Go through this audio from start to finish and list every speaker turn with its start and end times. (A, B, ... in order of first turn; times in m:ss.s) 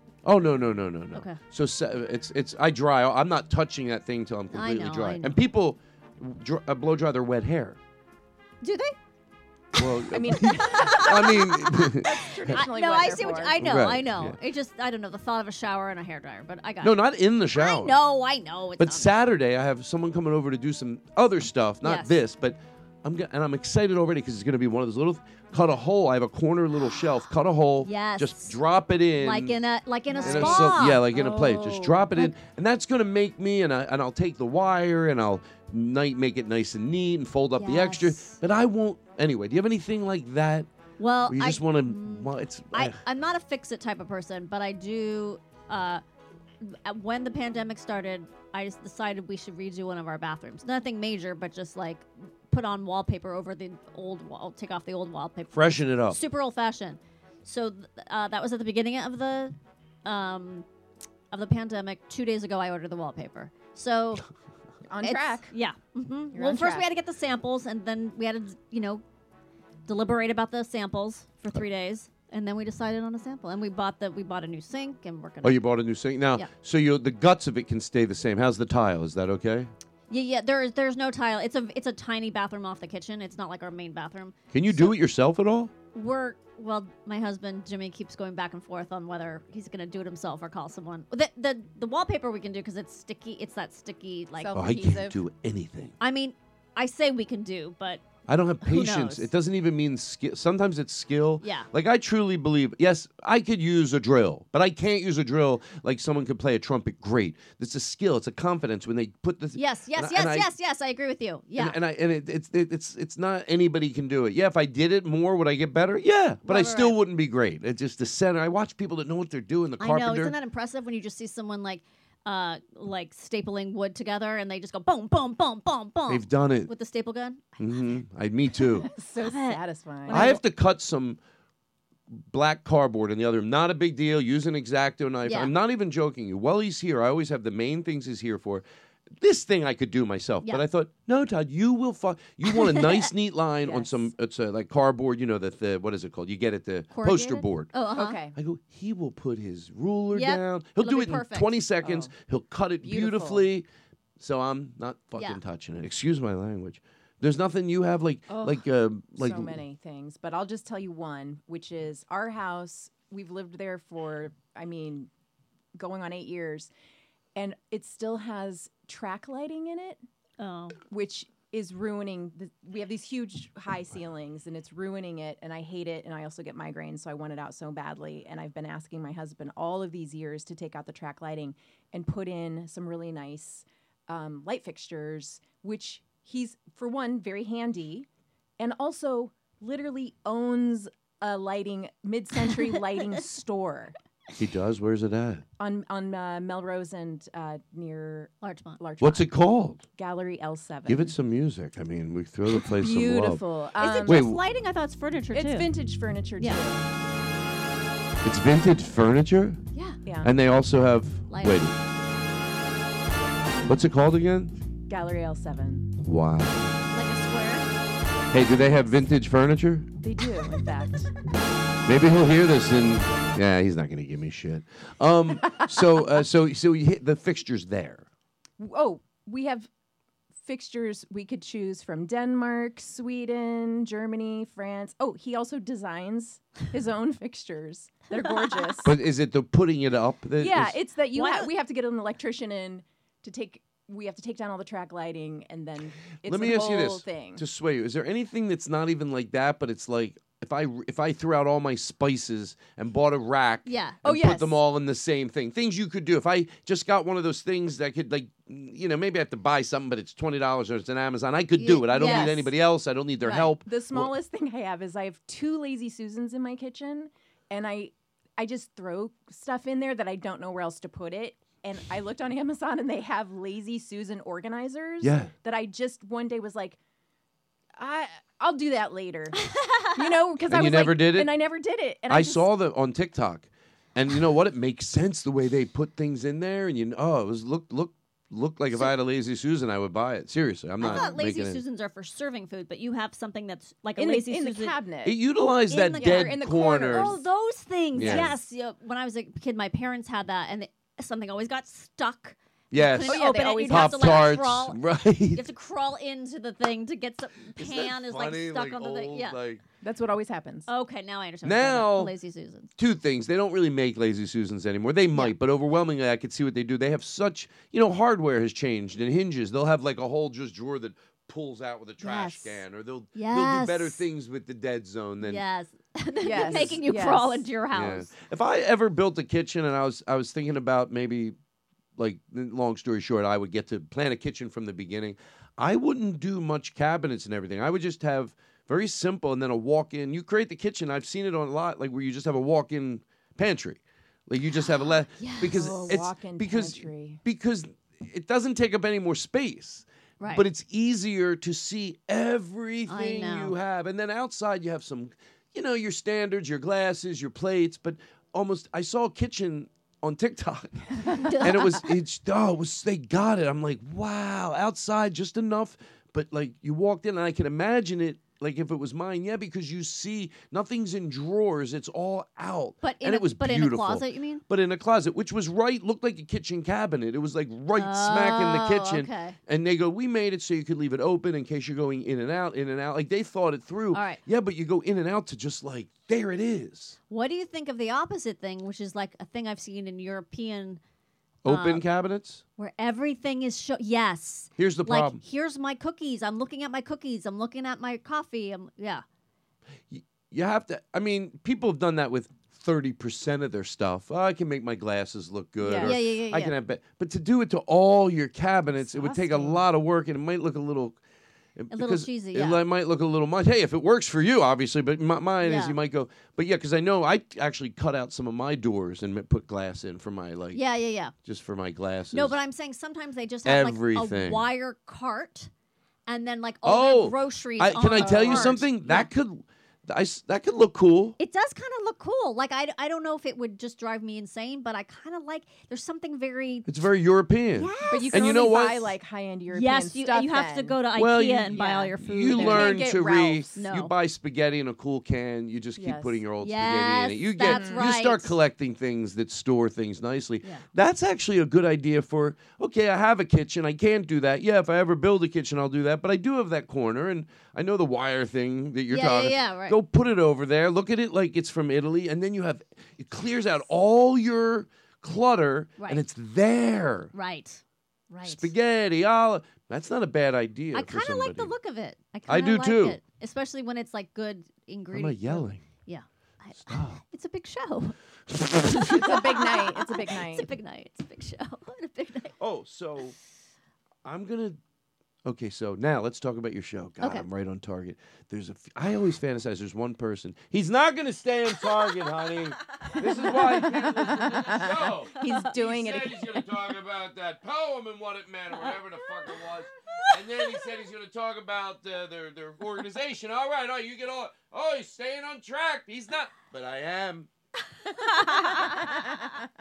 0:00.2-0:07.8 A
0:01.1-0:01.4 B
0:04.5-0:05.4 B
0:08.6-0:09.0 B
0:09.8-0:12.6 A
0:10.1-0:13.6 C
0:10.5-0:11.5 B
0:12.1-0:17.0 B
0:13.6-0:14.4 A
0:16.8-0:18.0 A
0:17.5-0:19.1 B
0:18.8-0:29.6 A
0:21.8-0:22.1 B
0:27.8-0:28.6 B
0:29.2-0:32.4 B
0:30.1-0:30.8 C
0:30.2-0:40.7 A
0:37.6-0:38.4 B
0:41.0-0:46.0 B
0:41.3-0:43.0 A
0:46.6-1:00.7 B
0:55.5-0:56.2 A
1:01.3-1:04.2 B
1:04.9-1:05.5 C
1:05.0-1:09.0 B
1:06.3-1:06.9 C
1:09.9-1:15.6 B
1:15.4-1:19.7 A
1:20.1-1:25.0 B
1:24.5-1:25.7 A
1:25.9-1:34.6 B
1:34.4-1:35.2 C
1:34.5-1:36.0 A
1:36.0-1:38.0 B
1:38.3-1:50.5 A
1:38.6-1:39.3 B
1:41.4-1:41.7 B
1:49.6-1:51.8 B
1:51.6-2:00.4 A
1:56.4-1:57.0 B
1:59.8-2:07.9 B
2:06.1-2:06.7 A
2:07.6-2:08.9 A
2:08.8-2:10.4 C
2:08.8-2:10.4 B
2:10.1-2:11.2 A
2:12.1-2:18.6 A
2:15.2-2:15.5 B
2:19.2-2:27.8 A
2:22.5-2:23.1 B
2:23.6-2:24.1 C
2:26.9-2:28.2 B
2:27.9-2:28.4 C
2:28.4-2:33.7 A
2:30.1-2:31.6 B
2:31.8-2:32.1 C
2:32.8-2:33.5 C
2:34.2-2:39.6 A
2:38.3-2:45.1 C
2:45.8-2:46.7 C
2:47.4-2:50.0 C
2:50.4-2:50.8 B
2:50.9-3:08.1 C
3:08.6-3:14.0 C
3:12.5-3:13.0 B
3:14.4-3:15.4 A
3:15.6-3:19.3 C
3:18.4-3:18.8 B
3:19.0-3:19.9 A
3:20.0-3:21.2 C
3:20.9-3:23.4 A
3:22.6-3:24.3 C
3:23.8-3:25.7 B
3:24.0-3:24.4 A
3:25.3-3:26.9 C
3:28.2-3:29.6 A
3:29.7-3:30.0 B
3:30.0-3:30.3 C
3:30.2-3:31.8 A
3:31.3-3:31.6 B
3:33.7-3:34.5 A
3:34.9-3:35.9 C
3:36.0-3:36.7 A
3:36.9-3:37.7 B
3:38.3-3:39.9 A
3:40.0-3:41.1 C
3:41.9-3:48.1 A
3:48.6-3:49.7 C
3:50.4-3:59.0 C
3:58.2-3:58.8 B
3:58.8-4:00.8 A
4:00.4-4:07.4 C
4:01.1-4:01.5 B
4:06.2-4:24.1 A
4:13.7-4:14.3 B
4:14.0-4:14.5 C
4:21.6-4:22.4 B
4:21.8-4:22.5 C
4:23.2-4:36.8 C
4:35.0-4:35.3 A
4:37.8-4:39.4 C
4:39.4-4:39.9 B
4:39.9-4:42.5 C
4:40.5-4:41.3 A
4:42.1-4:51.6 A
4:50.8-4:51.1 C
4:50.8-4:54.8 B
4:54.0-4:55.2 C
4:55.0-4:57.2 A
4:55.7-5:09.4 B
4:55.9-4:57.2 C
4:57.9-4:58.3 A
4:58.0-4:58.3 C
5:02.7-5:05.4 A
5:03.1-5:04.3 C
5:07.6-5:09.6 A
5:09.8-5:10.7 C
5:10.7-5:12.7 B
5:11.4-5:12.1 A
5:12.8-5:25.4 A
5:22.0-5:22.6 B
5:23.2-5:24.0 B
5:25.2-5:28.1 B
5:26.2-5:27.5 C
5:26.3-5:26.8 A
5:27.7-5:31.4 A
5:32.0-6:27.0 A
5:44.5-5:46.0 B
5:45.4-5:47.2 C
5:50.2-5:50.4 B
5:52.9-5:53.6 B
6:01.1-6:01.8 B
6:12.8-6:14.4 B
6:17.7-6:19.4 B
6:23.9-6:24.2 B
6:27.1-6:30.8 B
6:31.4-6:32.4 A
6:31.5-6:31.8 B
6:32.6-6:39.0 B
6:34.6-6:35.2 A
6:39.9-6:51.0 A
6:45.6-6:46.0 C
6:45.8-6:46.5 B
6:48.7-6:49.6 C
6:51.6-7:00.6 A
6:51.7-6:52.6 B
6:55.4-6:55.8 B
7:00.5-7:01.1 B
7:01.2-7:02.4 A
7:02.1-7:05.5 B
7:03.4-7:04.5 A
7:06.1-7:09.1 B
7:06.6-7:11.2 A
7:07.9-7:08.7 C
7:11.2-7:16.7 B
7:16.7-7:18.9 A
7:17.6-7:18.4 B
7:17.9-7:20.8 C
7:19.5-7:22.9 B
7:21.0-7:47.1 A
7:21.5-7:23.6 C
7:23.6-7:23.9 B
7:25.8-7:26.2 C
7:26.4-7:28.4 B
7:27.4-7:27.9 C
7:38.9-7:39.8 B
7:45.8-7:46.0 B
7:47.1-7:48.5 B
7:48.2-7:51.5 A
7:50.7-7:58.0 B
7:52.3-7:53.0 A
7:54.9-7:55.6 A
7:56.6-7:57.0 A
7:58.3-7:59.0 A
7:58.6-8:02.4 B
7:58.9-8:00.6 C
8:02.4-8:03.2 A
8:04.0-8:04.6 A
8:05.2-8:27.3 A
8:13.2-8:16.4 C
8:15.2-8:15.5 B
8:27.9-8:29.2 B
8:28.4-8:29.0 C